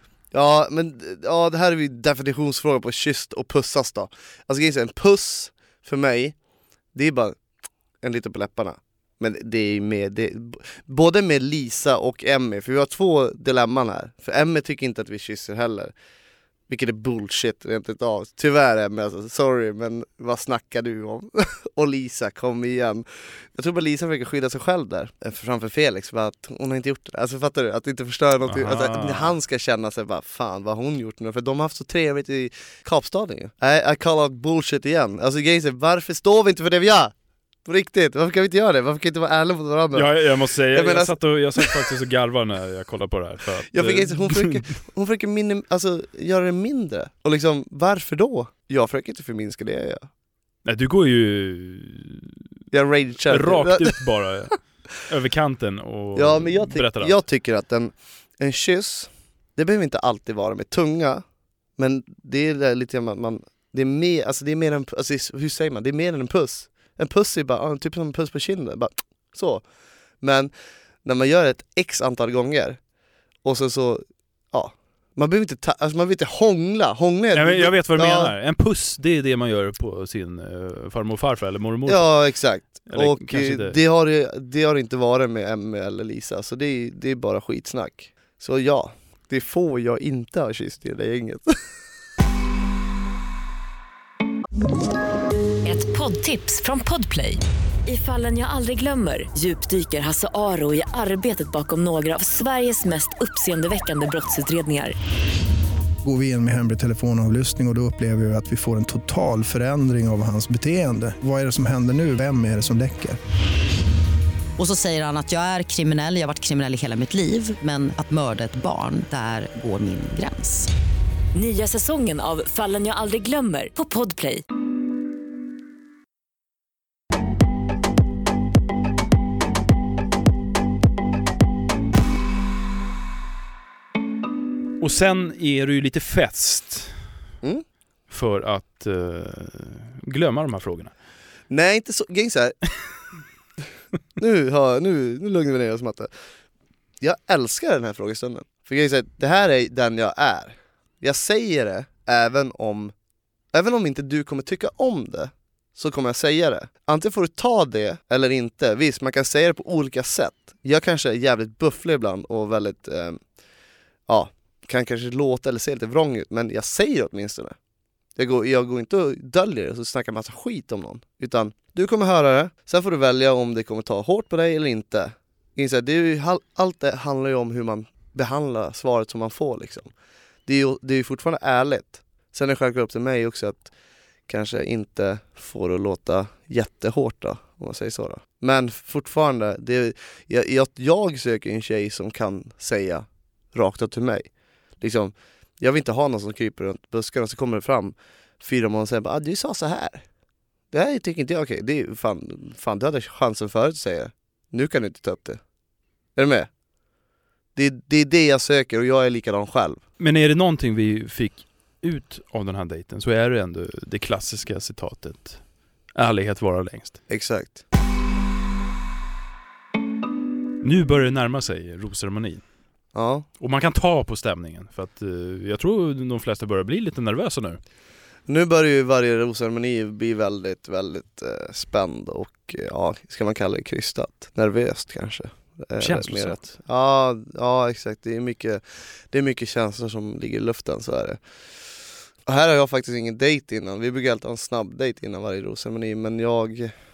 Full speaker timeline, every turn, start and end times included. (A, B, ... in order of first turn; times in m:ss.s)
0:00.3-0:06.4 A
0:06.9-0:07.4 A
0:08.0-0:15.9 A
0:16.7-0:37.1 A
0:28.5-0:29.4 B
0:37.6-0:41.8 A
0:39.9-0:44.7 B
0:43.7-0:50.1 A
0:50.6-0:52.4 B
0:52.7-0:54.0 A
0:53.3-0:57.2 B
0:56.2-1:01.2 A
1:01.8-1:09.6 A
1:10.2-1:10.5 A
1:11.0-1:12.8 A
1:13.4-1:18.3 A
1:17.3-1:23.8 B
1:21.9-1:31.6 A
1:35.6-1:45.0 C
1:46.0-1:53.2 D
1:54.6-2:00.7 E
2:01.3-2:04.4 C
2:14.8-2:17.1 B
2:18.1-2:20.9 B
2:21.5-2:22.6 A
2:24.2-2:26.1 A
2:27.0-2:32.9 A
2:33.5-2:43.2 A
2:44.1-2:47.6 A
2:48.2-2:59.9 A
3:00.5-3:03.7 A
3:04.3-3:20.0 A
3:20.7-3:25.4 A
3:26.2-3:26.5 A
3:27.6-3:29.8 A
3:30.0-3:37.0 B
3:37.1-3:37.6 A
3:40.6-3:42.4 B
3:43.0-3:43.3 A
3:43.4-3:47.6 B
3:48.3-4:01.2 A
3:55.8-3:56.4 B
4:02.3-4:06.7 A